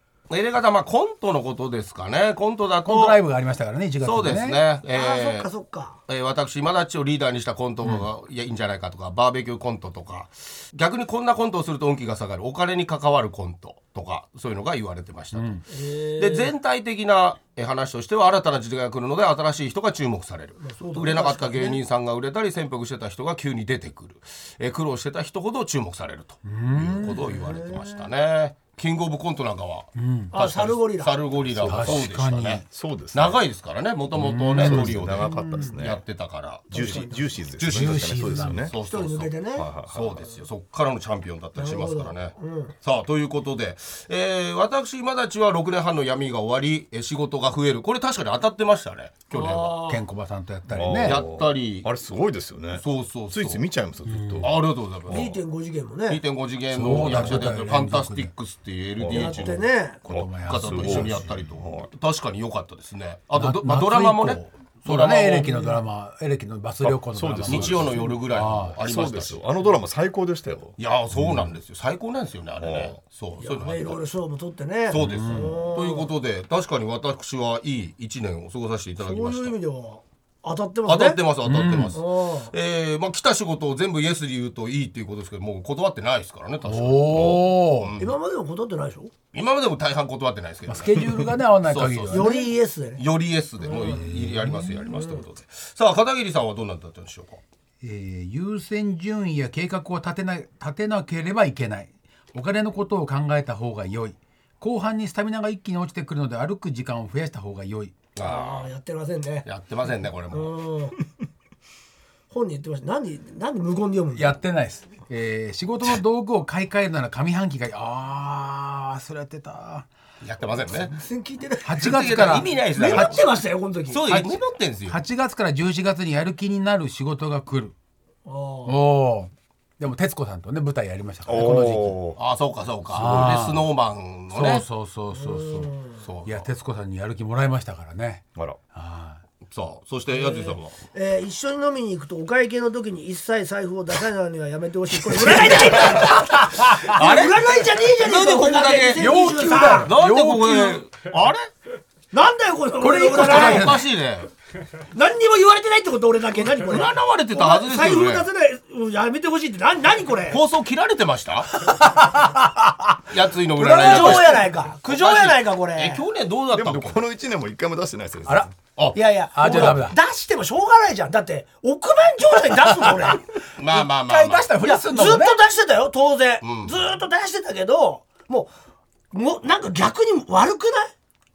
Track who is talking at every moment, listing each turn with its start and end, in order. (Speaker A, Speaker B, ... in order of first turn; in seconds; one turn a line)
Speaker A: 0.3-3.1
Speaker B: 2.9-4.6
Speaker C: 2.9-3.1
Speaker A: 4.0-5.5
Speaker C: 4.9-6.0
Speaker A: 6.1-15.7
Speaker B: 15.3-15.6
Speaker C: 15.7-16.5
Speaker A: 16.2-39.3
Speaker C: 20.6-21.8
Speaker B: 26.4-27.3
Speaker C: 27.2-28.1
Speaker B: 30.0-30.3
Speaker C: 30.3-31.2
Speaker D: 31.5-32.1
Speaker B: 31.6-32.6
Speaker D: 32.6-33.4
Speaker B: 34.1-35.7
Speaker D: 34.5-36.0
Speaker D: 36.7-38.8
Speaker C: 36.7-37.0
Speaker B: 37.7-38.7
Speaker C: 38.9-39.7
Speaker D: 39.6-40.3
Speaker A: 39.9-49.8
Speaker C: 41.5-42.7
Speaker C: 49.3-50.0
Speaker B: 49.9-51.2
Speaker D: 50.7-55.3
Speaker A: 51.0-51.9
Speaker A: 52.7-53.7
Speaker B: 54.0-54.5
Speaker A: 54.4-55.4
Speaker C: 55.1-56.2
Speaker A: 56.1-59.6
Speaker B: 56.7-58.3
Speaker D: 57.1-57.4
Speaker D: 59.0-61.9
Speaker C: 59.1-60.0
Speaker B: 60.0-61.5
Speaker A: 60.5-65.8
Speaker B: 63.4-68.8
Speaker D: 66.8-68.2
Speaker A: 67.4-69.4
Speaker D: 68.8-71.5
Speaker A: 70.8-74.0
Speaker D: 72.6-73.0
Speaker C: 73.4-76.1
Speaker A: 74.9-79.5
Speaker B: 74.9-75.7
Speaker C: 79.0-81.2
Speaker A: 80.9-88.1
Speaker B: 81.4-82.0
Speaker C: 81.9-82.5
Speaker B: 86.6-88.0
Speaker C: 88.0-89.1
Speaker A: 89.3-92.5
Speaker B: 90.7-92.5
Speaker C: 92.1-93.0
Speaker A: 93.0-97.4
Speaker C: 93.6-94.1
Speaker B: 93.7-95.0
Speaker C: 94.9-95.2
Speaker B: 97.8-108.0
Speaker A: 108.2-108.7
Speaker C: 108.2-109.5
Speaker A: 109.5-110.5
Speaker C: 110.3-111.0
Speaker C: 112.3-114.4
Speaker B: 114.2-119.9
Speaker A: 120.2-120.9
Speaker C: 120.9-124.0
Speaker B: 121.7-123.4
Speaker A: 121.8-123.3
Speaker A: 123.9-125.0
Speaker B: 124.1-127.7
Speaker C: 128.2-128.8
Speaker B: 128.7-132.0
Speaker D: 131.3-132.2
Speaker A: 132.2-134.6
Speaker B: 132.9-133.7
Speaker B: 134.3-135.7
Speaker C: 135.1-136.0
Speaker A: 136.0-136.4
Speaker B: 136.2-139.2
Speaker A: 139.5-140.8
Speaker C: 140.1-149.9
Speaker A: 145.3-146.2
Speaker B: 145.7-145.9
Speaker B: 146.6-146.9
Speaker A: 146.8-149.1
Speaker B: 148.9-150.8
Speaker A: 149.7-151.5
Speaker C: 152.1-153.8
Speaker B: 152.8-153.8
Speaker A: 153.2-154.3
Speaker C: 154.9-160.4
Speaker A: 156.6-158.3
Speaker A: 160.3-161.7
Speaker B: 161.7-162.9
Speaker A: 163.1-167.0
Speaker C: 163.6-166.0
Speaker B: 163.7-164.4
Speaker D: 166.5-168.5
Speaker A: 168.8-169.8
Speaker C: 168.9-173.2
Speaker B: 169.3-170.0
Speaker B: 172.6-175.4
Speaker A: 173.6-174.5
Speaker C: 174.6-178.5
Speaker A: 176.4-176.8
Speaker C: 179.1-180.9